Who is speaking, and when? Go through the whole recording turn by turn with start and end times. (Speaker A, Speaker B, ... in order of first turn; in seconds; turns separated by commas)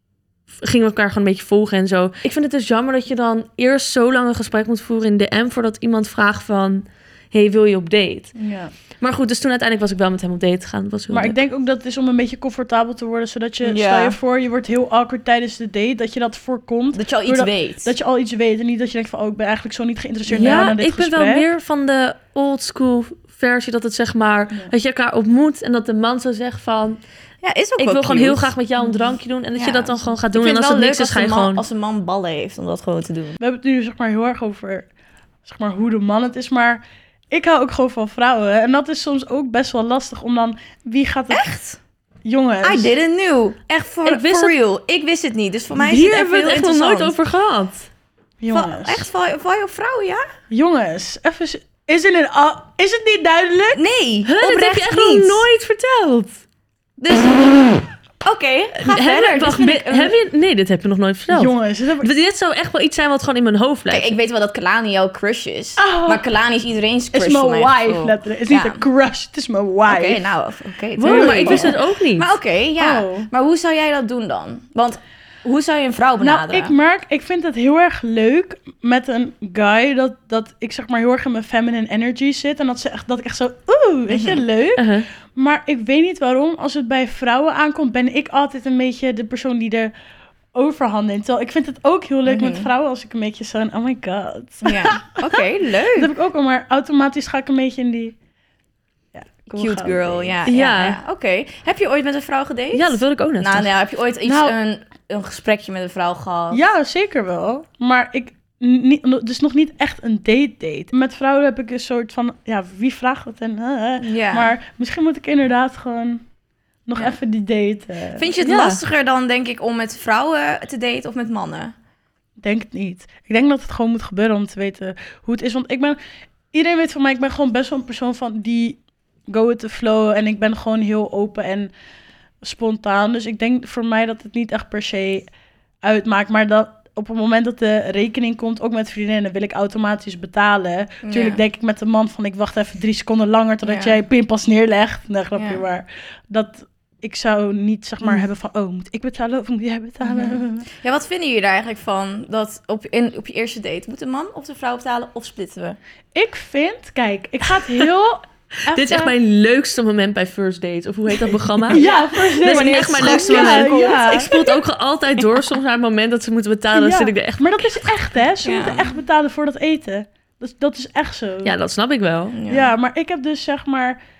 Speaker A: 0.6-8.3, Speaker B: 8.4-8.7, Speaker A: 9.0-11.4, Speaker B: 11.1-21.4, Speaker C: 13.6-14.2, Speaker C: 16.9-17.9, Speaker C: 20.3-20.7, Speaker A: 20.3-27.0, Speaker C: 27.4-28.5, Speaker A: 27.8-31.6, Speaker C: 29.6-33.4, Speaker B: 33.4-34.9, Speaker B: 35.4-41.5, Speaker C: 41.3-41.8, Speaker B: 42.2-42.9, Speaker C: 42.6-47.1, Speaker A: 44.0-44.5, Speaker A: 45.8-47.9, Speaker B: 48.4-49.1, Speaker C: 48.5-50.3, Speaker B: 50.5-53.8, Speaker C: 53.7-55.4, Speaker A: 54.2-56.4, Speaker C: 57.0-60.1, Speaker A: 58.8-64.1, Speaker B: 61.3-62.1, Speaker C: 63.9-68.8, Speaker B: 65.8-66.2, Speaker B: 67.1-70.2, Speaker C: 69.9-76.7, Speaker A: 71.0-72.3, Speaker B: 71.0-71.8, Speaker B: 72.8-73.3, Speaker B: 76.2-89.9, Speaker C: 84.1-84.4, Speaker A: 84.8-85.1, Speaker B: 90.5-95.4, Speaker C: 92.2-92.7, Speaker C: 94.6-96.1, Speaker B: 96.0-98.2, Speaker B: 99.1-100.4, Speaker C: 99.5-106.6, Speaker A: 100.5-101.0, Speaker A: 102.7-103.7, Speaker B: 104.2-104.5, Speaker B: 106.5-116.2, Speaker C: 114.0-114.5, Speaker B: 116.9-118.3, Speaker C: 118.2-121.7, Speaker A: 118.4-118.8, Speaker B: 122.4-126.0, Speaker B: 126.5-131.7, Speaker B: 132.4-135.3, Speaker B: 135.8-150.7, Speaker C: 141.0-141.4, Speaker C: 143.6-144.0, Speaker C: 145.3-145.6, Speaker C: 150.0-155.8, Speaker B: 156.1-159.1, Speaker A: 158.7-167.9, Speaker B: 161.7-164.3, Speaker C: 161.7-164.6, Speaker B: 166.7-171.5, Speaker C: 168.4-168.9, Speaker A: 171.4-172.3, Speaker C: 172.3-172.7, Speaker B: 172.5-174.0